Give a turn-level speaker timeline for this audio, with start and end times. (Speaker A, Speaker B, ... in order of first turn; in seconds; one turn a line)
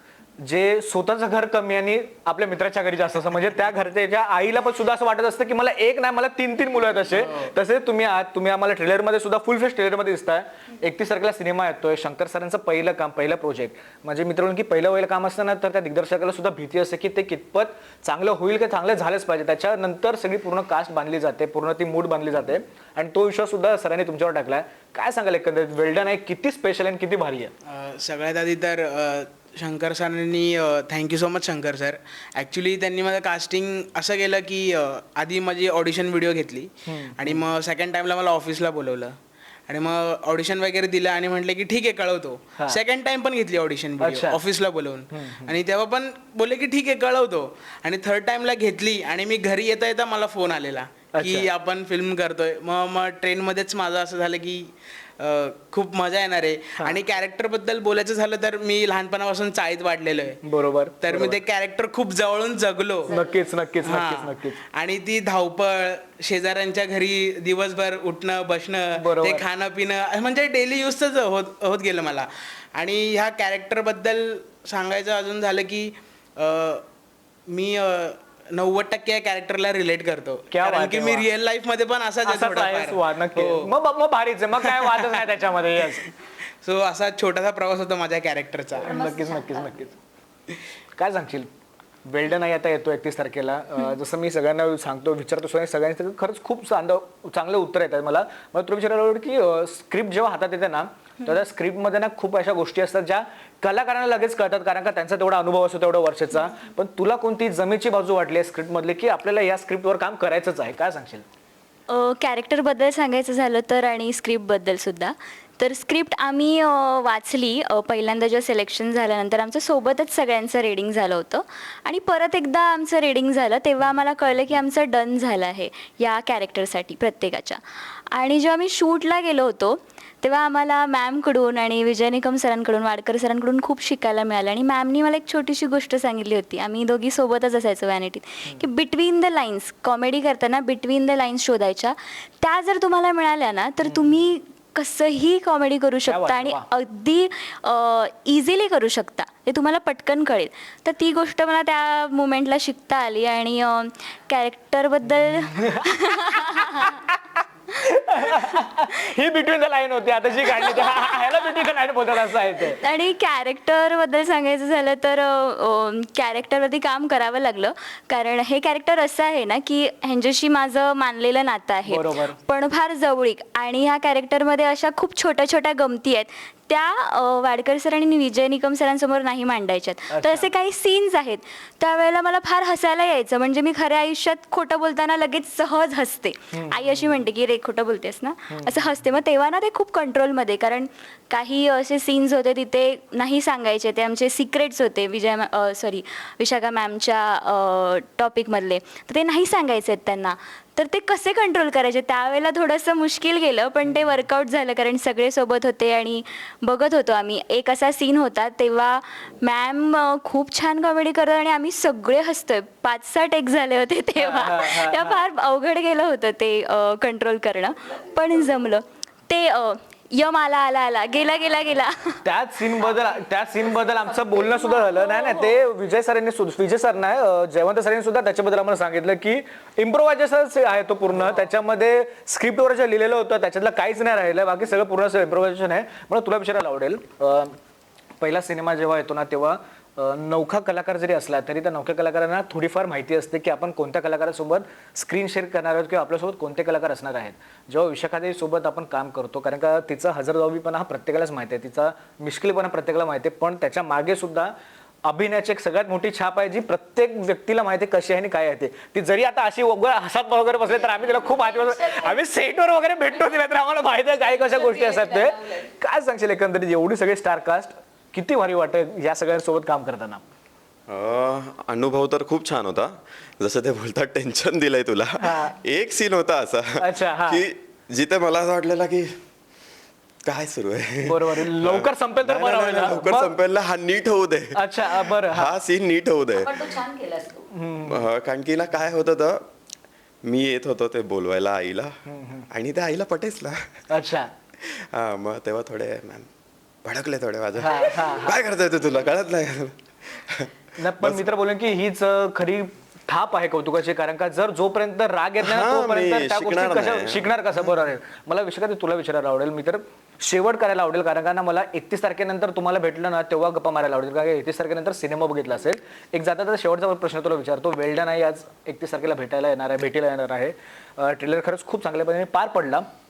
Speaker A: 0.4-27.5
Speaker B: 27.6-39.2
Speaker A: 36.9-37.3
Speaker B: 39.7-60.4
Speaker A: 44.0-44.4
Speaker A: 51.1-51.4
Speaker A: 60.6-61.4
Speaker B: 61.0-63.1
Speaker A: 63.1-64.5
Speaker B: 63.8-76.8
Speaker A: 69.2-69.4
Speaker B: 77.5-83.7
Speaker A: 80.5-81.2
Speaker A: 82.2-86.0
Speaker B: 86.6-88.9
Speaker C: 88.8-89.8
Speaker A: 88.9-89.9
Speaker A: 91.0-91.5
Speaker A: 92.0-111.2
Speaker D: 111.9-127.6
Speaker D: 128.2-156.9
Speaker A: 146.1-146.6
Speaker A: 158.0-162.8
Speaker D: 160.7-161.3
Speaker D: 162.6-222.2
Speaker A: 171.9-172.4
Speaker A: 214.2-215.1
Speaker A: 222.2-237.5
Speaker A: 238.2-270.2
Speaker E: 270.9-279.1
Speaker A: 275.2-275.5
Speaker A: 276.8-277.4
Speaker E: 280.2-286.5
Speaker A: 281.0-283.4
Speaker A: 284.5-285.5
Speaker C: 286.3-287.5
Speaker A: 287.5-288.0
Speaker E: 287.8-289.4
Speaker E: 290.2-291.9
Speaker A: 292.2-292.4
Speaker E: 292.5-293.7
Speaker A: 293.9-294.3
Speaker E: 294.6-296.3
Speaker E: 296.8-300.5
Speaker A: 297.6-298.4
Speaker A: 300.8-322.9
Speaker E: 305.4-307.3